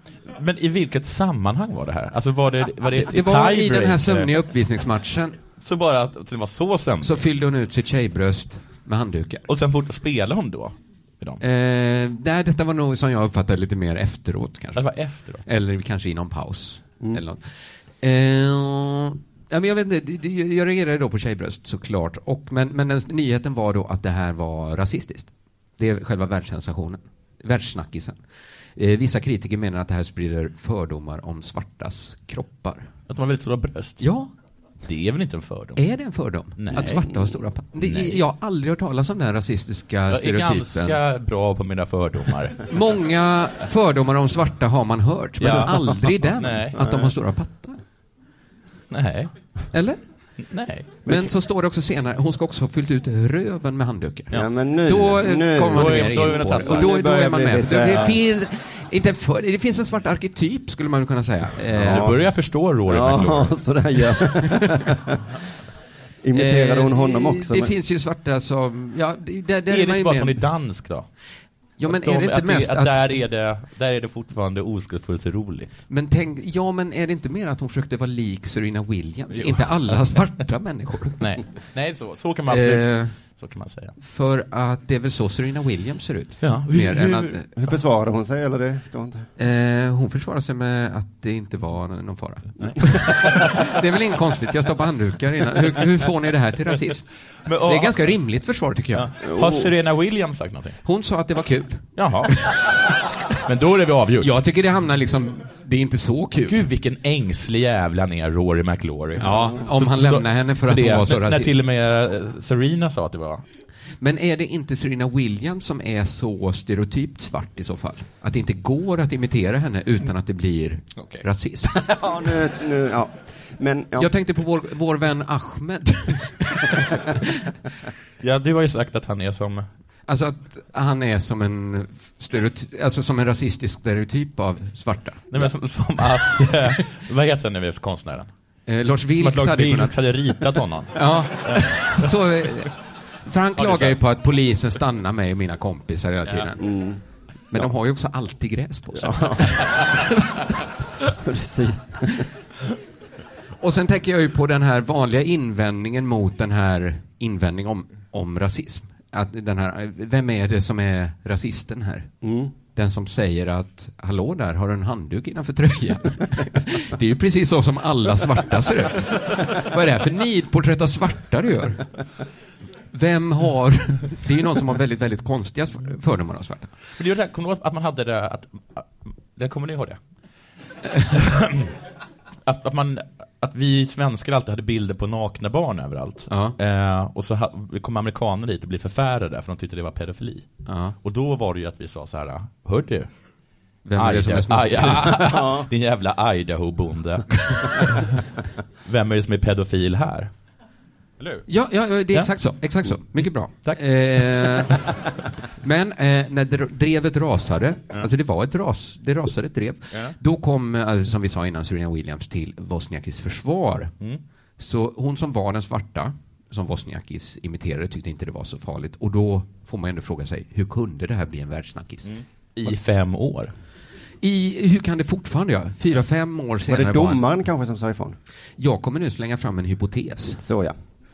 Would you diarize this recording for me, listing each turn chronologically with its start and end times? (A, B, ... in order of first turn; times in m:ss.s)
0:00.4-0:04.3 A
0:02.9-0:05.4 B
0:05.6-0:07.2 A
0:07.0-0:09.5 B
0:09.5-0:11.4 A
0:11.4-0:28.2 B
0:14.8-0:15.4 A
0:28.8-0:32.9 B
0:33.1-0:34.0 A
0:34.0-0:34.3 B
0:34.8-0:35.8 A
0:35.8-0:41.0 B
0:36.6-0:37.0 A
0:36.9-0:37.3 C
0:37.8-0:38.2 A
0:40.1-0:42.7 A
0:42.7-0:47.8 B
0:45.4-0:46.9 A
0:46.8-0:47.1 C
0:48.9-0:49.3 A
0:49.7-0:50.0 B
0:50.5-0:50.9 A
0:51.0-1:02.1 B
0:54.3-0:58.1 C
0:55.7-0:56.9 A
1:01.8-1:02.3 C
1:01.8-1:03.7 A
1:02.9-1:05.2 C
1:06.2-1:07.7 C
1:06.3-1:10.4 B
1:09.7-1:11.2 A
1:11.8-1:15.8 A
1:11.8-1:13.2 B
1:15.9-1:21.3 B
1:19.3-1:20.3 A
1:21.2-1:24.0 A
1:22.5-1:23.2 B
1:24.0-1:27.5 B
1:26.4-1:27.3 A
1:27.5-1:29.3 C
1:29.4-1:37.1 B
1:32.6-1:33.3 A
1:37.4-1:38.1 A
1:37.6-1:39.1 B
1:38.9-1:40.8 A
1:39.2-1:39.7 C
1:40.8-1:42.6 B
1:42.0-1:42.5 A
1:43.4-1:44.4 A
1:44.2-1:46.6 B
1:46.5-1:53.4 A
1:49.2-1:51.5 B
1:54.0-2:01.8 B
2:01.0-2:01.2 A
2:01.7-2:04.1 C
2:04.0-2:07.3 B
2:08.2-2:09.7 A
2:10.1-2:16.5 B
2:15.3-2:18.3 A
2:18.7-2:20.0 B
2:19.2-2:22.1 A
2:20.9-2:26.7 B
2:23.6-2:24.0 A
2:26.6-2:27.0 C
2:27.5-2:30.0 B
2:29.0-2:29.6 C
2:31.2-2:32.2 C
2:33.6-2:51.9 B
2:42.2-2:42.5 C
2:52.9-2:56.8 B
2:57.0-3:00.0 A
3:01.1-3:01.7 A
3:02.5-3:13.1 A
3:06.3-3:06.6 B
3:10.7-3:11.0 B
3:13.8-3:15.5 B
3:14.0-3:18.2 A
3:15.3-3:15.7 C
3:18.8-3:20.3 A
3:21.2-3:21.5 A
3:21.5-3:24.9 B
3:22.8-3:24.9 A
3:25.6-3:34.0 B
3:34.6-3:42.1 B
3:42.1-3:43.5 A
3:44.2-3:47.2 B
3:46.7-3:48.2 C
3:48.6-3:50.4 B
3:50.4-3:50.8 C